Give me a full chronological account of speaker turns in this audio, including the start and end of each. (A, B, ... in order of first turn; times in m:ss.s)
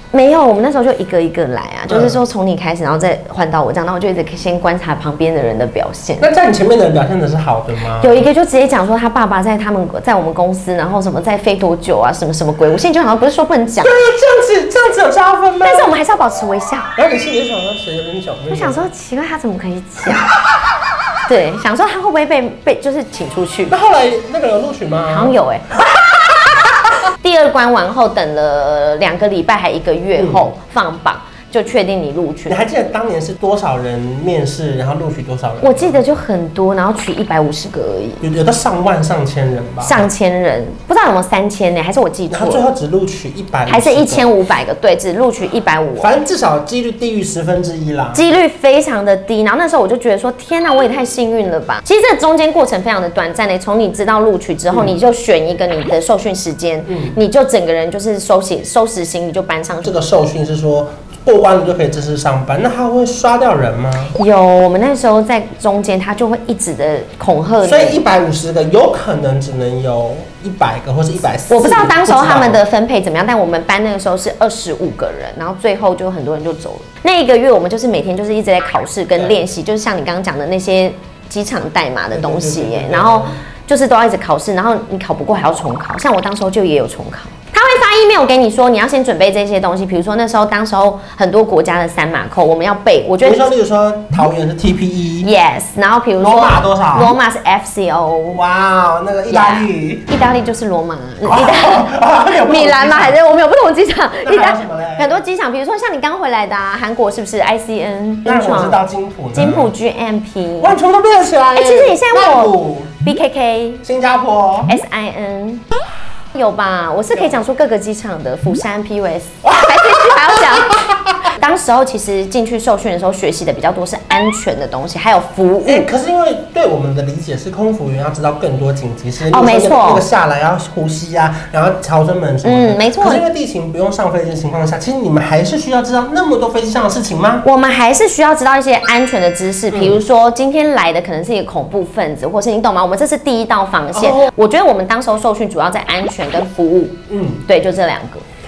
0:00.1-0:06.3 A
0:01.9-0:02.2 B
0:06.2-0:08.3 B
0:08.0-0:14.0 A
0:13.8-0:15.9 B
0:15.6-0:16.9 A
0:17.0-0:18.9 B
0:18.5-0:20.3 A
0:21.3-0:23.7 A
0:23.7-0:26.8 B
0:25.1-0:25.8 A
0:27.2-0:32.6 A
0:30.2-0:30.5 B
0:32.5-0:36.1 B
0:35.6-0:38.2 A
0:38.2-0:40.1 B
0:39.8-0:42.7 A
0:42.3-0:44.3 B
0:43.7-0:46.2 A
0:46.0-0:48.2 B
0:48.1-1:00.0 A
0:54.7-0:55.0 B
0:56.9-0:57.2 B
0:59.8-1:04.1 B
1:04.2-1:08.0 A
1:07.6-1:12.6 B
1:11.5-1:33.5 A
1:22.1-1:23.4 B
1:33.2-1:35.3 B
1:35.2-1:38.4 A
1:36.2-1:37.2 B
1:38.3-1:40.1 B
1:39.3-1:50.8 A
1:41.2-1:43.2 B
1:44.2-1:45.2 B
1:48.3-1:49.7 B
1:50.6-1:53.2 B
1:51.6-1:53.8 A
1:53.8-1:54.8 B
1:54.7-1:55.6 A
1:56.3-2:05.9 A
1:57.1-1:57.4 B
1:59.4-2:01.3 B
2:05.6-2:17.5 B
2:09.3-2:10.1 A
2:12.4-2:13.2 A
2:17.4-2:28.2 A
2:19.7-2:20.0 B
2:23.9-2:24.3 B
2:27.1-2:27.5 B